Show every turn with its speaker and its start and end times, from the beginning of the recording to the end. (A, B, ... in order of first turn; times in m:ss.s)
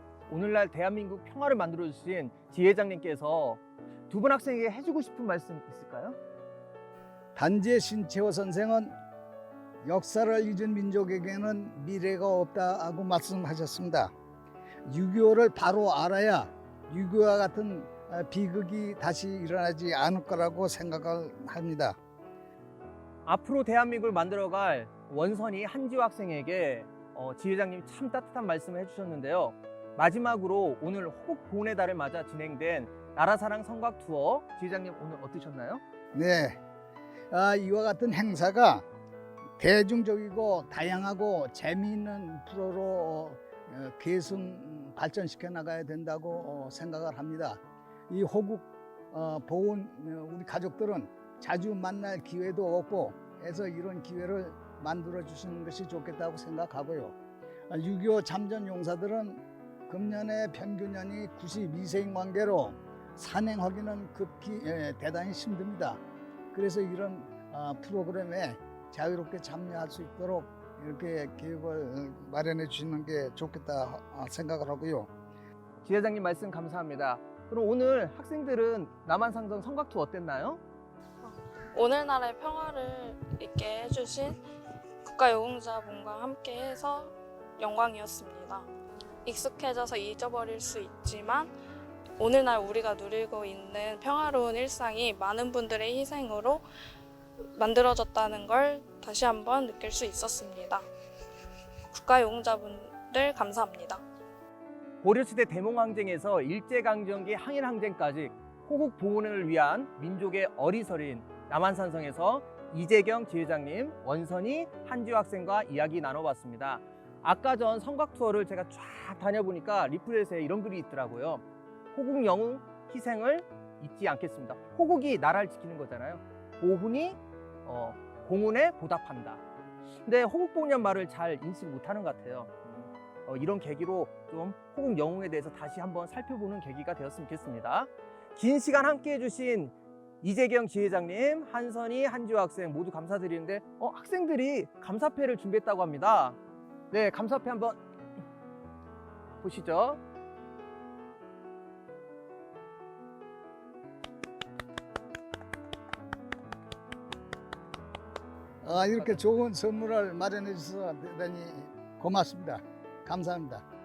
0:00.3-0:06.2 A
0:07.3-0:09.0 B
0:09.8-0:14.1 B
0:14.9-0:22.0 B
0:23.2-0:35.8 A
0:36.1-0:36.6 B
0:37.3-0:38.8 B
0:39.6-0:57.1 B
0:57.7-1:06.0 B
1:06.5-1:15.1 B
1:15.8-1:20.6 A
1:21.2-1:24.4 C
1:25.0-1:28.7 C
1:29.2-1:31.5 C
1:32.2-1:36.6 C
1:37.6-1:40.8 C
1:41.9-1:44.0 C
1:45.0-2:09.4 A
2:10.0-2:26.4 A
2:26.9-2:27.8 A
2:29.4-2:30.0 A
2:38.6-2:43.6 B